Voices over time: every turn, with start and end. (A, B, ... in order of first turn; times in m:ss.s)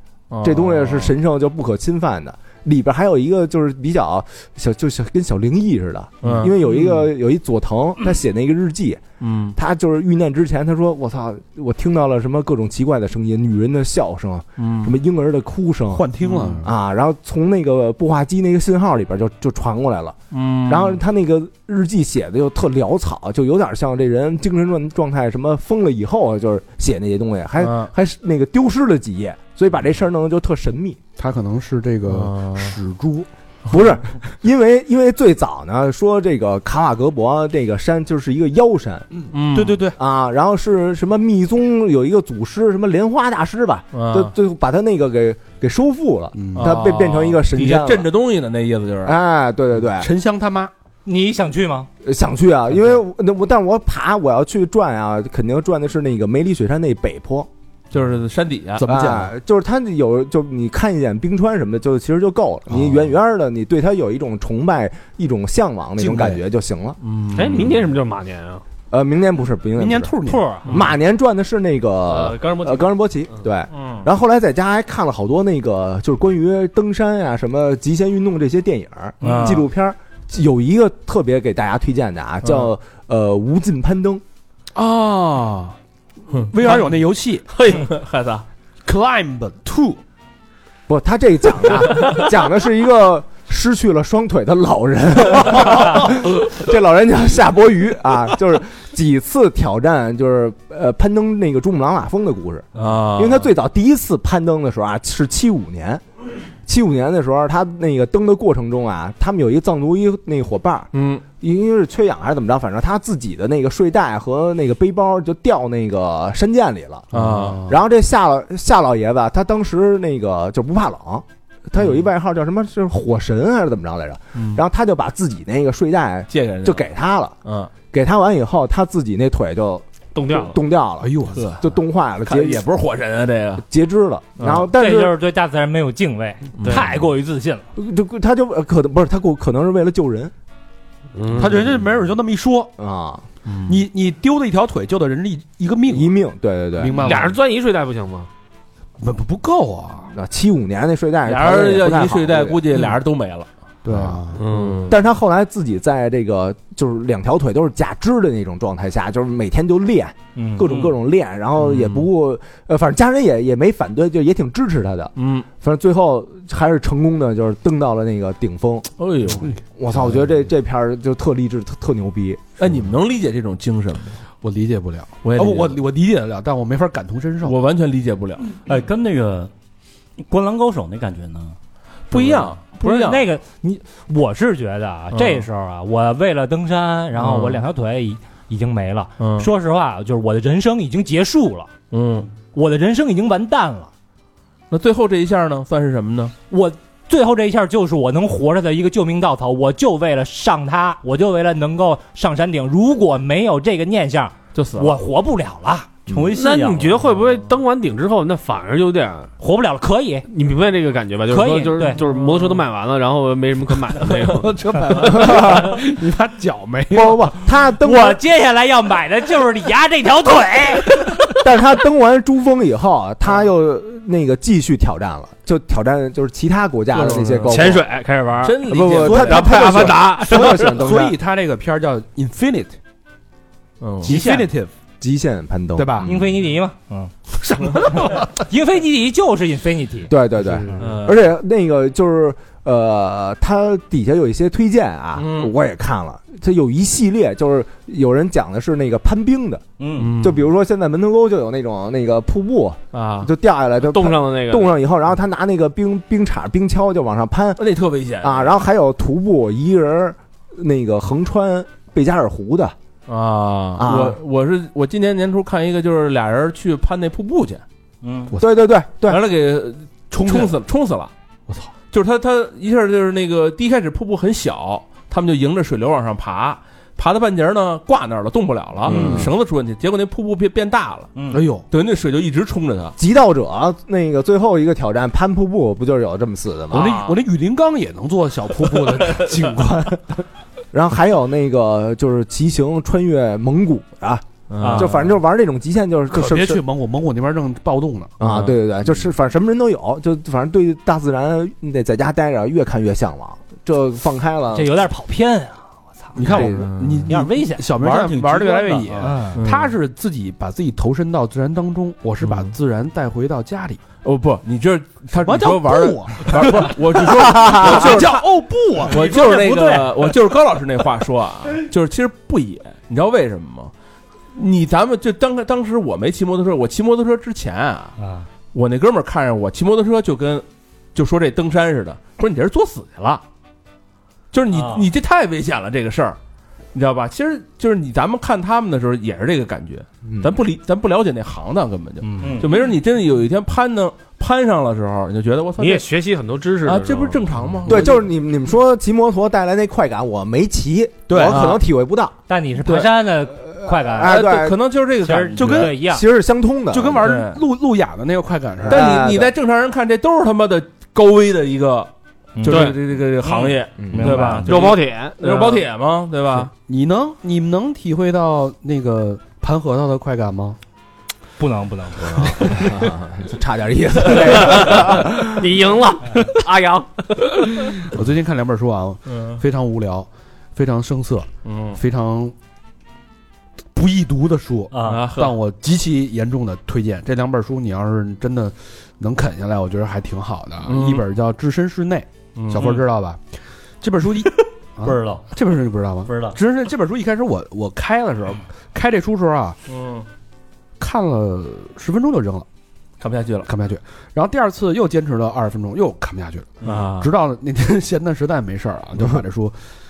0:00.3-0:01.1 A
0:00.4-0:09.0 B
0:06.2-0:07.1 A
0:09.2-0:09.6 A
0:09.6-0:16.1 B
0:14.6-0:14.9 A
0:15.9-0:16.7 C
0:16.2-0:16.6 A
0:16.6-0:31.0 B
0:20.3-0:21.0 A
0:27.6-0:27.9 A
0:31.2-0:33.3 C
0:32.1-0:32.7 A
0:33.7-0:39.2 B
0:39.3-0:39.9 A
0:39.5-0:40.0 C
0:40.0-0:48.1 B
0:43.9-0:44.3 A
0:46.3-0:46.8 C
0:46.5-0:49.2 A
0:49.0-0:50.1 B
0:50.0-0:50.7 C
0:51.0-0:51.9 D
0:52.0-0:57.5 B
0:57.9-0:58.8 A
0:58.8-0:59.3 C
0:58.8-1:07.0 B
1:02.7-1:03.1 C
1:06.0-1:06.4 C
1:07.0-1:07.8 A
1:07.3-1:08.6 E
1:08.9-1:10.2 B
1:09.8-1:10.5 C
1:10.3-1:10.7 D
1:10.7-1:24.2 B
1:12.1-1:13.4 E
1:13.7-1:14.1 A
1:19.2-1:19.7 A
1:22.4-1:22.7 A
1:24.7-1:25.8 C
1:26.3-1:26.8 A
1:26.4-1:27.5 C
1:27.6-1:28.4 A
1:28.8-1:30.0 C
1:30.9-1:46.0 B
1:42.8-1:43.5 A
1:46.7-1:57.1 B
1:50.9-1:51.2 A
1:57.1-1:57.7 A
1:57.1-1:57.8 C
1:57.7-2:07.4 B
2:01.8-2:02.0 A
2:04.4-2:04.6 A
2:06.3-2:06.9 A
2:07.4-2:07.7 A
2:07.9-2:12.7 B
2:10.2-2:10.6 E
2:11.0-2:11.5 C
2:11.3-2:11.6 A
2:12.2-2:13.6 A
2:13.7-2:15.2 B
2:14.4-2:14.7 A
2:14.8-2:17.7 D
2:16.6-2:17.0 A
2:17.8-2:20.3 B
2:21.2-2:21.5 E
2:21.4-2:22.8 C
2:22.8-2:23.3 B
2:23.5-2:23.8 A
2:23.7-2:26.2 C
2:25.9-2:27.2 B
2:26.8-2:27.4 C
2:26.9-2:28.3 E
2:29.0-2:30.1 C
2:30.1-2:32.8 B
2:31.2-2:33.5 A
2:33.8-2:34.4 C
2:33.9-2:34.4 B
2:34.4-2:34.8 E
2:34.6-2:35.0 A
2:34.9-2:52.5 B
2:40.4-2:40.6 D
2:40.6-2:41.0 A
2:41.6-2:42.0 A
2:45.2-2:45.5 A
2:49.0-2:49.5 A
2:52.6-2:54.2 A
2:54.4-2:57.6 C
2:55.2-2:55.8 A
2:57.4-2:58.5 A
2:58.7-2:59.5 F
3:00.2-3:01.6 F
3:02.1-3:03.3 A
3:02.8-3:11.7 D
3:05.1-3:05.5 A
3:07.2-3:07.6 A
3:09.2-3:09.5 A
3:11.9-3:12.3 A
3:12.5-3:13.9 D
3:14.7-3:16.3 A
3:16.5-3:25.9 D
3:24.5-3:25.0 A
3:26.1-3:27.0 F
3:26.3-3:29.3 E
3:29.4-3:30.3 D
3:30.3-3:34.5 E
3:31.3-3:32.0 D
3:32.0-3:32.6 A
3:34.3-3:37.5 C
3:35.1-3:35.8 B
3:36.9-3:38.2 B
3:37.8-3:41.1 D
3:41.4-3:47.8 B
3:46.9-3:47.5 A
3:47.5-3:48.7 E
3:48.4-3:50.0 A
3:48.7-3:51.2 B
3:49.0-3:52.8 C
3:49.2-3:50.4 E
3:53.8-3:54.2 A
3:54.0-3:54.7 C
3:54.1-3:54.5 D
3:55.0-3:56.2 B
3:55.8-3:56.1 C
3:56.0-3:57.1 D
3:57.6-3:58.2 C
3:57.7-4:00.1 D
4:00.1-4:09.6 B
4:00.8-4:01.3 A
4:05.2-4:05.5 A
4:09.8-4:10.1 F
4:10.0-4:10.5 A
4:10.2-4:17.7 B
4:12.9-4:13.3 A
4:13.8-4:14.8 E
4:17.6-4:18.6 A
4:18.2-4:22.8 B
4:23.1-4:27.6 A
4:23.8-4:24.2 B
4:28.0-4:28.3 F
4:28.4-4:29.2 B
4:29.0-4:31.1 A
4:30.1-4:30.5 C
4:31.7-4:41.1 A
4:38.8-4:39.3 F
4:38.9-4:39.3 C
4:38.9-4:39.3 B
4:41.2-4:41.4 F
4:41.3-4:41.6 C
4:41.7-4:43.0 A
4:43.0-4:46.9 B
4:46.7-4:47.2 A
4:46.7-4:50.0 C
4:48.9-4:49.2 A
4:50.7-4:56.6 B
4:54.5-4:55.1 A
4:54.6-4:54.9 D
4:56.1-4:58.1 C
4:58.2-5:04.8 B
4:58.2-4:58.6 A
5:04.6-5:06.5 D
5:06.2-5:07.1 A
5:06.2-5:13.8 C
5:06.3-5:06.6 B
5:07.1-5:07.7 D
5:07.8-5:09.2 F
5:09.0-5:09.4 D
5:09.4-5:09.7 A
5:12.2-5:12.5 A
5:14.0-5:18.2 A
5:15.1-5:19.0 C
5:17.3-5:17.9 B
5:18.8-5:23.7 A
5:19.0-5:19.9 D
5:24.3-5:28.0 A
5:28.0-5:28.3 D
5:28.5-5:33.2 A
5:34.3-5:36.2 A
5:34.5-5:34.9 F
5:36.7-5:45.8 A
5:40.0-5:40.4 B
5:42.2-5:42.6 F
5:45.6-5:47.3 E
5:46.6-5:48.1 A
5:47.7-5:52.2 B
5:51.1-5:51.6 A
5:51.2-5:51.4 C
5:52.3-5:54.2 D
5:52.6-5:52.9 A
5:53.7-5:54.6 B
5:54.0-5:55.8 A
5:55.0-5:56.0 D
5:55.4-5:55.8 C
5:55.8-5:57.0 B
5:56.7-5:59.0 C
5:57.0-5:57.4 A
5:58.7-5:59.3 B
5:58.7-6:01.9 A
6:02.4-6:02.8 D
6:02.4-6:06.5 A
6:02.5-6:02.8 E
6:03.8-6:04.3 B
6:03.9-6:04.5 D
6:03.9-6:04.5 F
6:04.5-6:05.7 E
6:06.6-6:10.6 C
6:11.4-6:12.7 D
6:12.0-6:15.5 B
6:14.5-6:14.7 E
6:15.4-6:17.3 E
6:17.9-6:22.4 C
6:19.1-6:19.4 A
6:21.4-6:21.8 A
6:23.7-6:33.2 C
6:24.7-6:25.0 F
6:24.8-6:25.3 A
6:30.7-6:31.0 A
6:32.4-6:32.8 A
6:33.8-6:39.6 C
6:34.8-6:35.3 F
6:36.1-6:36.4 F
6:39.7-6:40.1 A
6:40.8-6:42.5 C
6:43.0-6:43.5 A
6:43.4-6:49.6 C
6:46.6-6:47.1 A